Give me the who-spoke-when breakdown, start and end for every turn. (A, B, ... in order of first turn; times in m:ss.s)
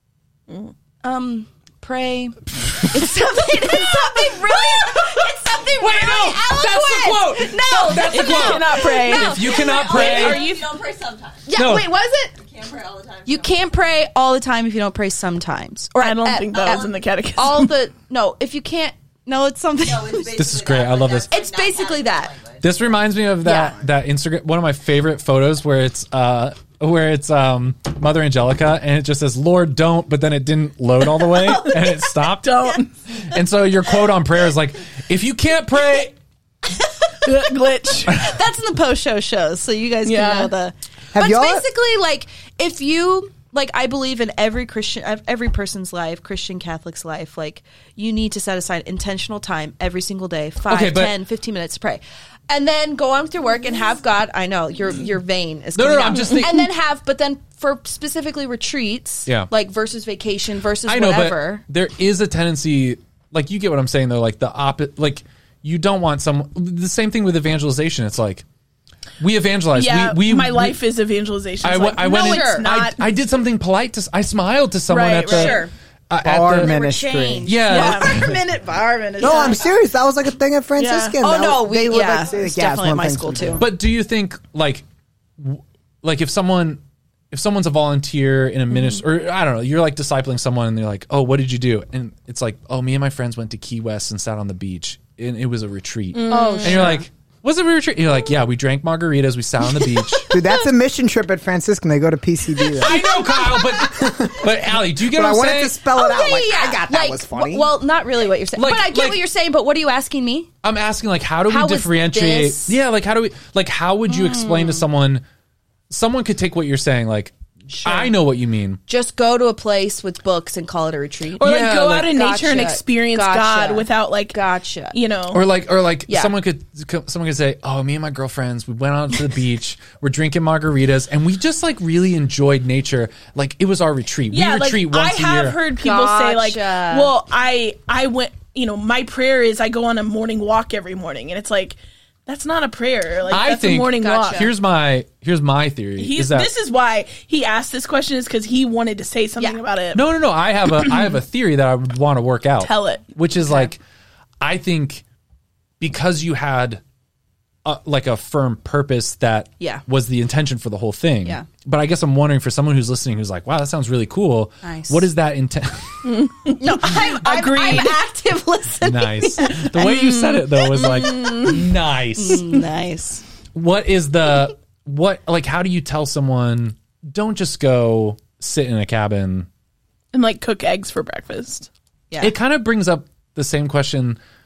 0:01.0-0:09.7 A
0:03.7-0:10.5 B
0:08.1-0:10.8 C
0:09.5-0:11.6 D
0:11.5-0:12.3 A
0:11.5-0:11.9 B
0:12.3-0:13.7 D
0:13.2-0:20.4 A
0:16.0-0:17.7 C
0:19.8-0:22.9 D
0:20.3-0:21.3 B
0:21.2-0:22.3 A
0:22.6-0:36.2 B
0:23.4-0:23.8 A
0:31.2-0:31.9 A
0:32.4-0:32.9 C
0:36.6-0:37.5 A
0:37.2-0:38.2 C
0:38.0-1:01.6 A
0:40.0-0:40.5 C
0:41.1-0:41.7 E
0:50.7-0:51.2 B
0:55.7-0:56.6 B
1:00.8-1:08.4 B
1:09.2-1:10.8 B
1:09.7-1:13.0 C
1:11.6-1:16.8 B
1:12.0-1:12.7 A
1:14.9-1:15.7 C
1:15.2-1:15.7 A
1:16.2-1:17.6 E
1:16.5-1:19.7 A
1:17.4-1:18.4 B
1:17.7-1:18.2 C
1:19.2-1:23.6 E
1:20.8-1:21.2 C
1:21.2-1:23.7 A
1:23.6-1:24.8 B
1:25.4-1:26.8 B
1:27.3-1:40.3 B
1:36.1-1:37.0 C
1:36.3-1:37.0 A
1:40.3-1:43.1 E
1:42.8-1:45.8 B
1:43.6-1:47.7 E
1:45.9-1:50.5 A
1:48.6-1:49.2 B
1:50.6-1:55.2 B
1:51.5-1:52.8 A
1:54.1-1:54.9 A
1:55.9-1:58.8 B
1:57.7-1:58.1 A
1:58.9-2:05.0 A
2:01.4-2:02.1 B
2:01.4-2:04.4 C
2:04.9-2:05.4 C
2:05.3-2:15.6 B
2:06.1-2:06.3 A
2:14.3-2:24.5 C
2:15.8-2:17.1 A
2:23.3-2:26.5 B
2:23.9-2:24.5 A
2:26.0-2:30.0 C
2:29.9-2:33.8 B
2:32.6-2:33.0 C
2:33.4-2:33.7 A
2:34.4-2:35.0 B
2:35.8-2:36.8 B
2:37.6-2:46.1 B
2:44.6-2:45.1 A
2:46.0-2:48.0 C
2:46.5-2:51.6 A
2:48.8-2:52.5 B
2:50.8-2:51.6 C
2:52.2-2:53.2 A
2:53.5-2:59.5 B
3:00.1-3:01.7 C
3:02.2-3:04.2 B